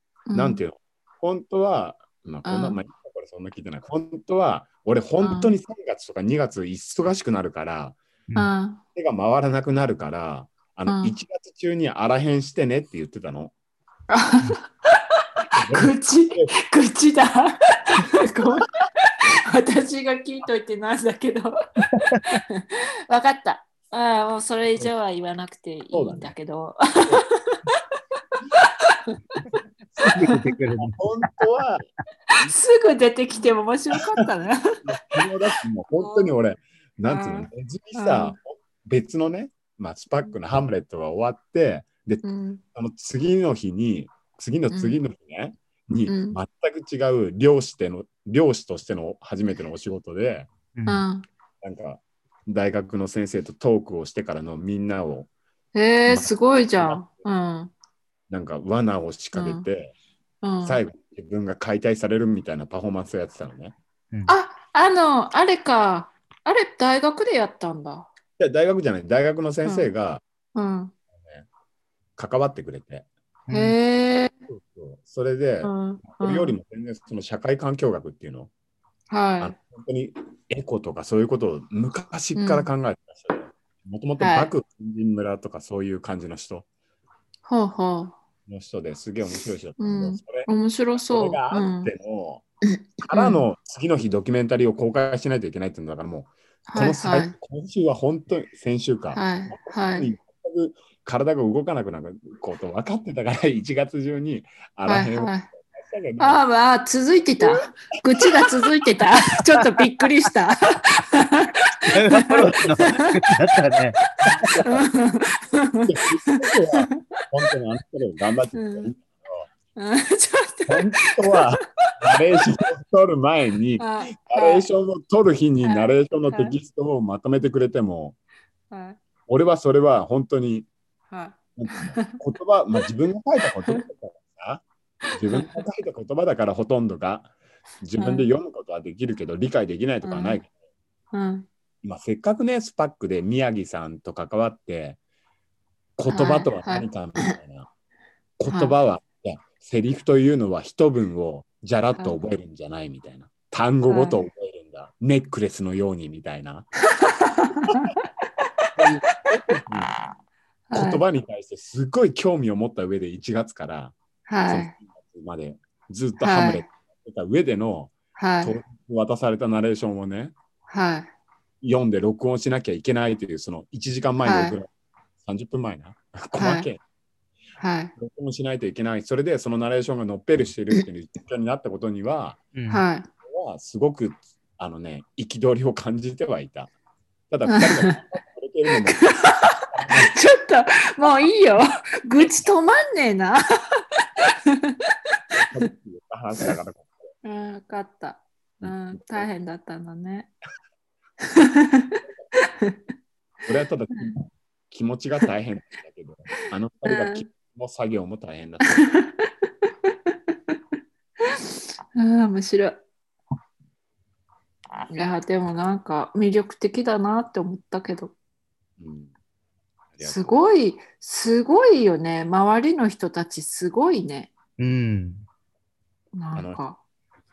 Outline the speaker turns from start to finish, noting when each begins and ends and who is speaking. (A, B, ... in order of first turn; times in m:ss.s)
0:00.3-0:00.6 A
0:00.3-0:08.0 B
0:02.4-0:02.8 A
0:05.2-0:05.5 A
0:08.3-0:08.8 A
0:08.9-0:13.5 B
0:10.8-0:11.1 A
0:14.1-0:14.6 A
0:15.5-0:16.5 B
0:15.7-0:21.5 A
0:22.2-0:27.7 A
0:25.9-0:26.3 B
0:28.6-0:29.3 A
0:30.0-0:31.4 C
0:30.0-0:30.3 A
0:30.8-0:31.8 B
0:32.3-0:34.8 A
0:34.8-0:50.5 B
0:35.9-0:36.4 A
0:37.0-0:38.4 A
0:42.2-0:42.6 A
0:44.7-0:45.0 A
0:46.0-0:46.4 A
0:50.7-0:51.0 C
0:50.9-0:51.2 A
0:51.6-0:55.3 B
0:55.7-0:57.7 A
0:56.1-0:57.2 B
0:58.3-0:59.9 B
0:59.3-0:59.7 A
1:00.4-1:00.8 A
1:00.6-1:03.7 B
1:04.3-1:08.1 A
1:08.4-1:10.2 B
1:09.6-1:09.9 A
1:10.5-1:10.9 A
1:11.2-1:11.4 B
1:12.2-1:13.1 B
1:13.5-1:13.8 C
1:13.5-1:14.4 A
1:14.5-1:18.5 B
1:15.6-1:16.6 A
1:19.1-1:19.6 A
1:19.4-1:26.6 B
1:22.3-1:22.7 A
1:24.2-1:24.5 A
1:27.4-1:28.2 A
1:28.5-1:32.4 B
1:29.8-1:31.9 A
1:33.1-1:46.4 B
1:33.1-1:33.4 A
1:36.7-1:37.3 A
1:39.1-1:40.1 A
1:44.8-1:45.5 A
1:46.2-1:52.9 A
1:48.3-1:48.6 B
1:51.9-1:54.0 C
1:54.2-1:54.8 B
1:54.2-1:57.2 A
1:55.8-1:59.5 B
1:58.5-1:58.9 A
1:59.8-2:01.5 A
2:00.7-2:08.2 B
2:03.8-2:04.6 A
2:05.6-2:06.6 A
2:08.7-2:09.0 A
2:09.3-2:10.7 B
2:11.1-2:12.2 A
2:11.6-2:20.5 B
2:15.2-2:15.6 A
2:18.0-2:18.3 A
2:20.0-2:20.4 A
2:21.1-2:21.5 A
2:21.8-2:25.0 B
2:26.0-2:27.7 B
2:26.1-2:27.3 A
2:28.4-2:36.7 B
2:28.5-2:28.7 A
2:33.9-2:34.3 A
2:37.0-2:37.9 A
2:38.8-2:39.9 B
2:39.1-2:39.6 A
2:40.7-2:41.0 A
2:40.7-2:43.9 B
2:44.3-2:44.7 A
2:44.5-2:50.3 B
2:46.2-2:46.6 A
2:48.2-2:48.6 A
2:50.7-2:51.1 A
2:51.6-2:54.7 B
2:54.2-2:54.6 A
2:55.2-2:56.8 B
2:56.4-2:56.7 A
2:57.6-2:57.9 A
2:58.0-3:02.4 B
3:02.5-3:02.8 C
3:02.7-3:03.1 A
3:03.2-3:06.7 B
3:07.3-3:10.1 B
3:07.4-3:08.0 A
3:08.8-3:14.7 A
3:15.3-3:17.1 B
3:17.2-3:20.3 A
3:18.6-3:19.3 B
3:21.2-3:22.7 A
3:23.4-3:28.9 B
3:26.8-3:27.3 A
3:28.8-3:29.3 A
3:32.0-3:32.8 A
3:34.9-3:38.1 A
3:38.8-3:39.1 B
3:39.9-3:40.4 B
3:40.0-3:44.3 A
3:44.6-3:45.2 C
3:46.1-3:46.8 A
3:46.3-3:46.6 B